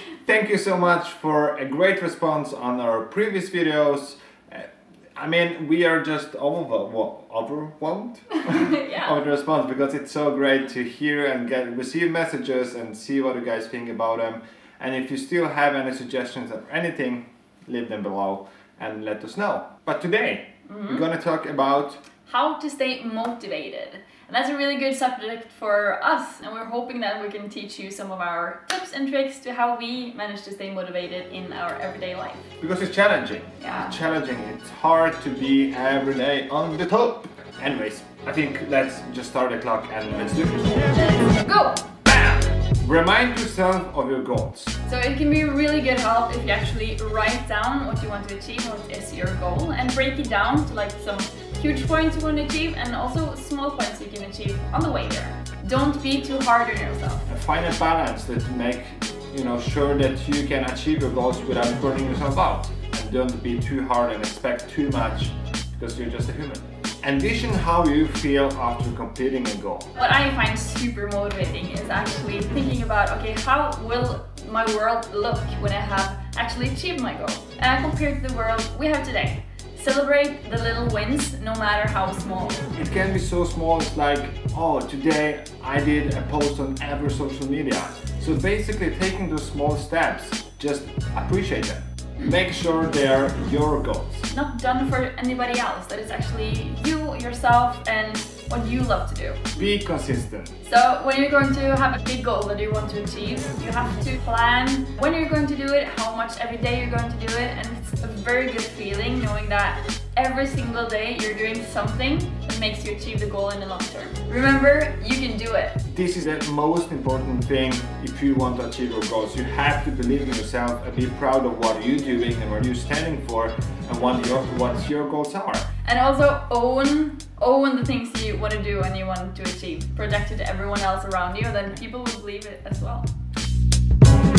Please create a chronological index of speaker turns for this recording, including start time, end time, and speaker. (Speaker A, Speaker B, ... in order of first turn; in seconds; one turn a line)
Speaker A: 0.2-22.0
Speaker B: 8.3-9.1
Speaker B: 20.7-21.0
Speaker B: 22.3-32.5
Speaker A: 32.6-41.0
Speaker B: 33.6-34.0
Speaker B: 40.9-41.8
Speaker A: 42.0-44.7
Speaker B: 44.8-57.2
Speaker A: 57.3-69.9
Speaker B: 69.9-82.6
Speaker A: 82.7-94.3
Speaker B: 94.3-99.5
Speaker A: 99.5-100.6
Speaker B: 100.6-115.8
Speaker A: 115.9-125.7
Speaker B: 125.8-133.1